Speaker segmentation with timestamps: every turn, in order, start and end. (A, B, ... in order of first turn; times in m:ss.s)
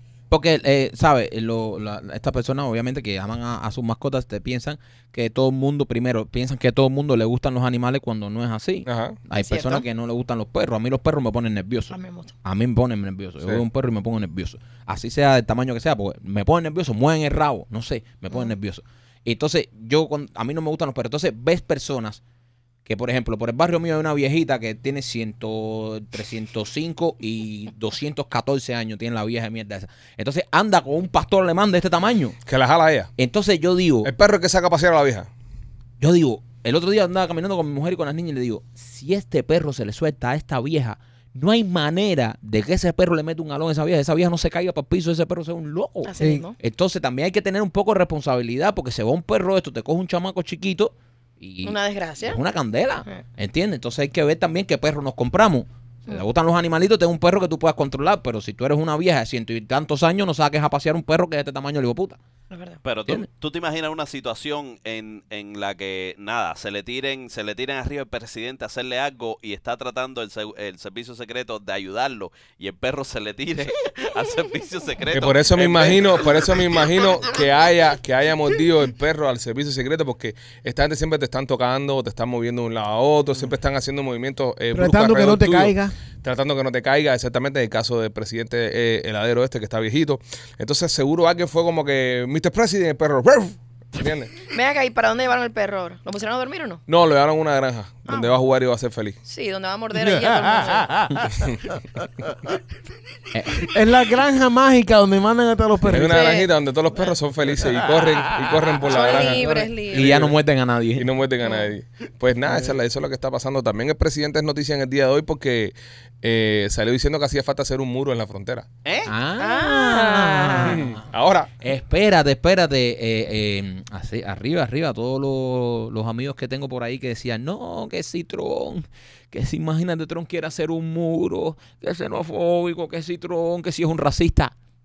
0:00.3-0:22.2 A
0:08.8-0:09.2 B
0:09.4-0:09.8 C
0:11.9-0:12.3 C
0:22.8-0:32.4 A
0:32.4-0:33.1 B
0:33.2-0:34.1 A
0:34.0-0:35.3 B
0:36.0-1:02.2 A
0:46.0-0:46.6 C
0:46.2-0:46.5 D
0:51.6-0:52.4 C
1:02.5-1:02.8 C
1:02.8-1:16.7 E
1:15.1-1:34.3 B
1:24.7-1:25.9 D
1:34.5-1:36.8 C
1:36.9-1:39.2 B
1:38.1-1:38.4 C
1:39.2-1:41.2 C
1:40.1-1:41.4 D
1:43.3-1:43.7 A
1:43.6-1:46.3 D
1:45.8-1:50.4 B
1:46.0-1:46.5 C
1:48.8-1:50.2 C
1:49.4-1:49.7 D
1:49.9-1:51.1 A
1:51.0-1:58.7 B
1:51.4-1:51.7 C
1:58.8-1:59.1 E
1:59.0-2:01.0 A
1:59.4-2:00.8 C
2:00.6-2:01.5 B
2:01.6-2:14.5 A